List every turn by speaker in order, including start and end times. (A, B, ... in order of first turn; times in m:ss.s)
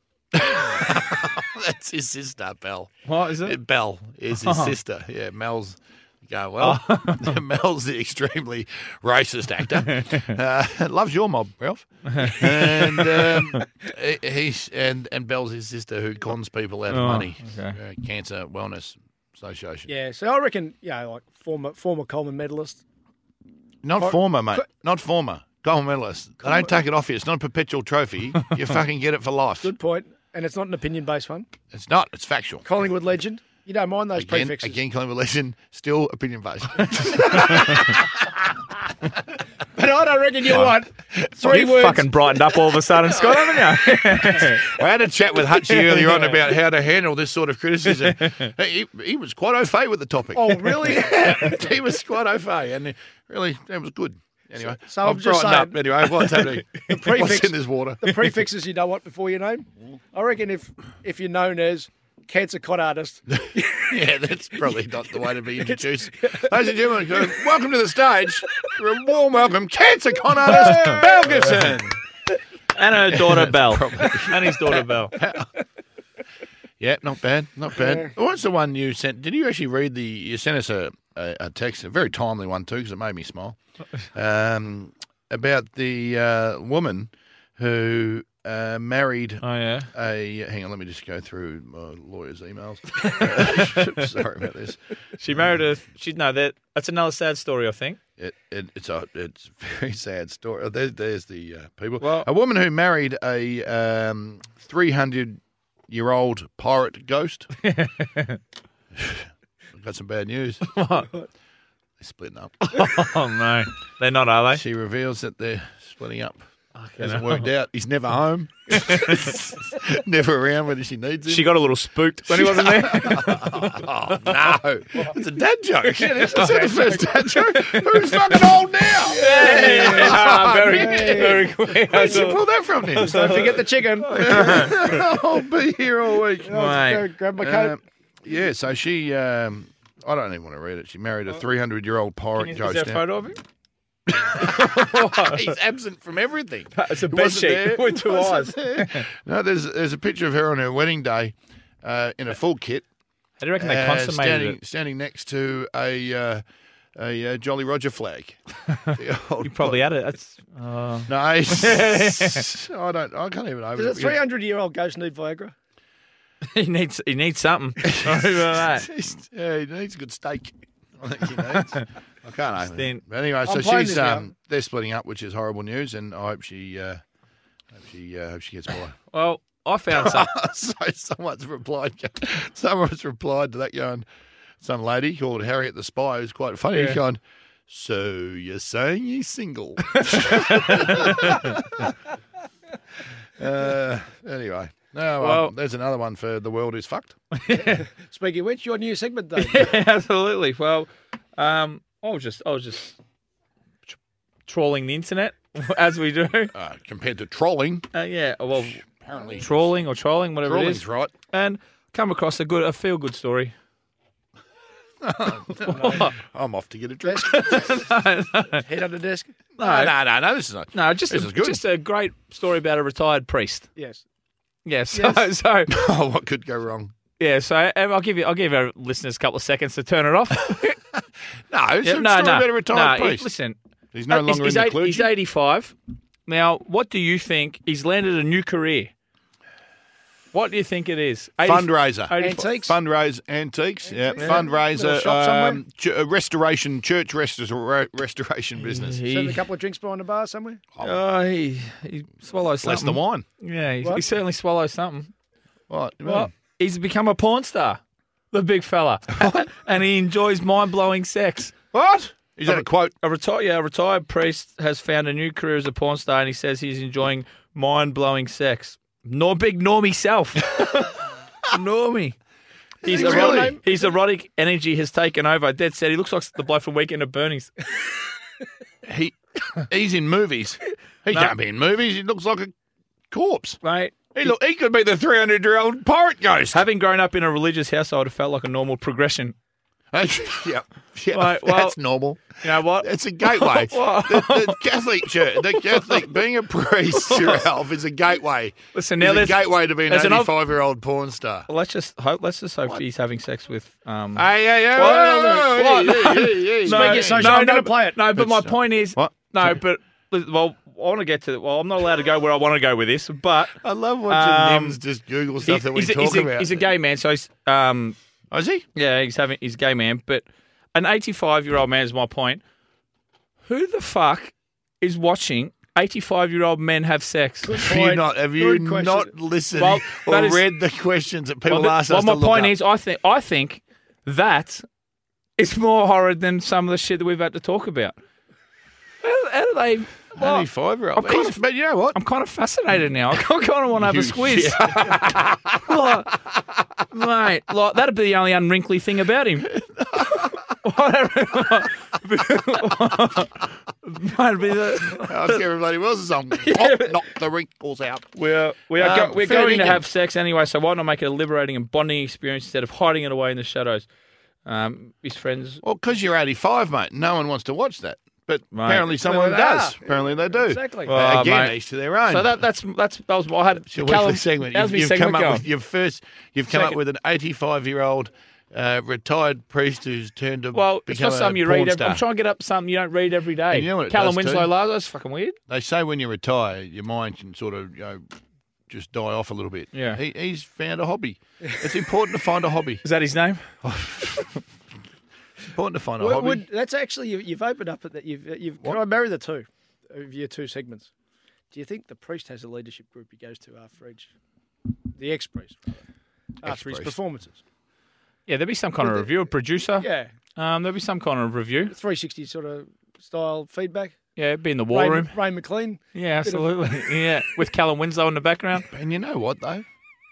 0:00.3-0:19.9 A
0:03.0-0:03.6 B
0:04.4-0:04.7 B
0:06.6-0:07.4 B
0:09.8-0:10.3 B
0:12.1-0:13.6 B
0:16.9-0:17.8 B
0:19.9-0:22.8 C
0:23.8-0:29.7 A
0:24.0-0:24.6 C
0:26.4-0:26.7 C
0:29.6-0:31.5 C
0:31.7-0:32.6 A
0:32.6-0:34.8 C
0:34.1-0:38.6 A
0:39.7-0:42.1 C
0:41.4-0:44.7 B
0:43.1-0:58.4 A
0:45.6-0:46.4 B
0:47.9-0:48.5 B
0:50.3-0:51.7 C
0:54.6-1:04.0 C
1:03.3-1:12.0 A
1:05.7-1:06.5 C
1:10.4-1:11.3 C
1:12.7-1:15.2 B
1:13.1-1:15.5 A
1:16.8-1:23.6 A
1:17.8-1:18.1 C
1:24.1-1:34.8 A
1:29.4-1:29.9 B
1:32.9-1:34.0 B
1:35.2-1:38.0 B
1:38.2-1:47.5 A
1:42.0-1:42.3 B
1:47.6-1:48.4 B
1:48.9-1:50.7 A
1:50.6-1:51.1 B
1:52.0-1:52.8 A
1:52.6-1:54.6 B
1:54.5-1:56.4 A
1:56.8-1:57.5 B
1:57.0-2:01.6 A
1:58.7-1:59.4 B
2:01.3-2:03.9 B
2:02.2-2:13.6 A
2:05.9-2:08.5 B
2:09.1-2:12.3 C
2:09.1-2:15.1 B
2:13.0-2:14.7 C
2:14.1-2:16.8 A
2:16.4-2:17.8 C
2:16.5-2:17.1 B
2:17.4-2:23.0 A
2:22.4-2:23.4 B
2:24.1-2:32.8 A
2:24.2-2:25.5 B
2:26.7-2:29.0 B
2:33.4-2:34.6 B
2:33.6-2:36.4 A
2:36.9-2:39.8 A
2:39.4-2:42.4 B
2:41.1-2:44.2 A
2:43.8-2:45.5 C
2:46.4-2:48.9 B
2:47.8-2:57.0 A
2:52.7-2:53.0 B
2:53.4-2:54.3 C
2:57.7-2:59.0 A
2:59.1-3:00.3 B
2:59.9-3:04.0 A
3:04.6-3:11.9 A
3:06.7-3:07.0 B
3:09.9-3:11.5 B
3:13.4-3:17.2 A
3:15.2-3:15.5 B
3:17.3-3:17.8 B
3:17.5-3:19.7 C
3:19.4-3:23.0 B
3:24.5-3:26.5 B
3:26.5-3:27.9 A
3:27.9-3:28.8 B
3:28.6-3:29.8 A
3:29.4-3:33.5 B
3:30.4-3:31.1 A
3:35.0-3:37.8 A
3:35.7-3:36.1 B
3:35.7-3:36.0 C
3:37.0-3:37.3 C
3:37.2-3:38.6 B
3:38.5-3:39.3 C
3:39.6-3:41.6 A
3:39.6-3:39.9 B
3:40.7-3:43.7 B
3:43.8-3:44.0 C
3:44.6-3:45.7 B
3:44.9-3:45.3 C
3:45.7-3:46.9 A
3:47.2-3:50.8 B
3:50.9-3:53.3 A
3:51.8-3:53.6 B
3:53.9-3:55.1 A
3:54.1-3:55.7 B
3:56.3-3:58.9 B
4:00.3-4:02.5 B
4:01.4-4:09.0 A
4:02.2-4:02.7 C
4:03.8-4:05.6 C
4:08.6-4:09.4 B
4:09.1-4:10.6 C
4:10.8-4:15.1 B
4:12.6-4:13.2 A
4:15.7-4:16.3 A
4:16.0-4:17.8 B
4:18.3-4:21.5 B
4:21.7-4:22.9 A
4:22.4-4:32.2 B
4:32.8-4:37.6 B
4:32.8-4:33.6 A
4:32.8-4:33.9 C
4:38.8-4:42.5 A
4:43.1-4:43.6 A
4:43.6-4:44.1 B
4:44.1-4:46.6 A
4:46.5-4:49.3 B
4:49.9-5:01.5 A
4:51.1-4:54.6 B
4:55.3-4:56.0 B
4:57.0-4:57.4 B
4:58.7-5:00.3 B
5:01.5-5:13.6 B
5:04.1-5:07.4 A
5:06.6-5:08.0 C
5:08.1-5:09.6 A
5:13.6-5:16.7 A
5:14.1-5:14.8 B
5:15.4-5:18.0 B
5:18.3-5:18.6 A
5:18.7-5:22.4 B
5:23.4-5:27.5 B
5:27.4-5:29.1 C
5:27.5-5:32.5 A
5:29.6-5:30.4 B
5:31.5-5:34.6 B
5:35.4-5:38.0 B
5:39.0-5:41.4 B
5:40.2-5:42.0 A
5:41.9-5:46.2 B
5:43.8-5:45.8 A
5:46.9-5:49.5 B
5:49.5-5:50.3 A
5:50.1-5:55.4 B
5:55.0-5:58.1 A
5:56.4-5:57.0 B
5:58.2-6:03.8 B
5:58.8-5:59.8 A
6:04.4-6:05.6 B
6:05.6-6:12.4 A
6:08.5-6:08.9 B
6:09.0-6:10.9 C
6:10.9-6:15.4 B
6:13.7-6:22.0 A
6:16.5-6:16.8 B
6:20.5-6:25.4 B
6:23.5-6:24.5 A
6:25.5-6:28.0 A
6:28.7-6:32.8 A
6:29.7-6:30.0 B
6:32.8-6:33.5 B
6:33.6-6:34.4 A
6:35.4-6:36.4 A
6:36.0-6:40.9 C
6:41.5-6:44.1 C
6:44.9-6:45.8 C
6:46.4-6:47.4 C
6:46.4-6:47.0 A
6:48.3-6:51.7 B
6:48.8-6:49.1 C
6:49.8-6:50.1 C
6:51.7-6:53.9 C
6:54.2-6:55.2 B
6:54.7-6:56.7 C
6:55.9-6:58.7 B
6:58.7-6:59.6 A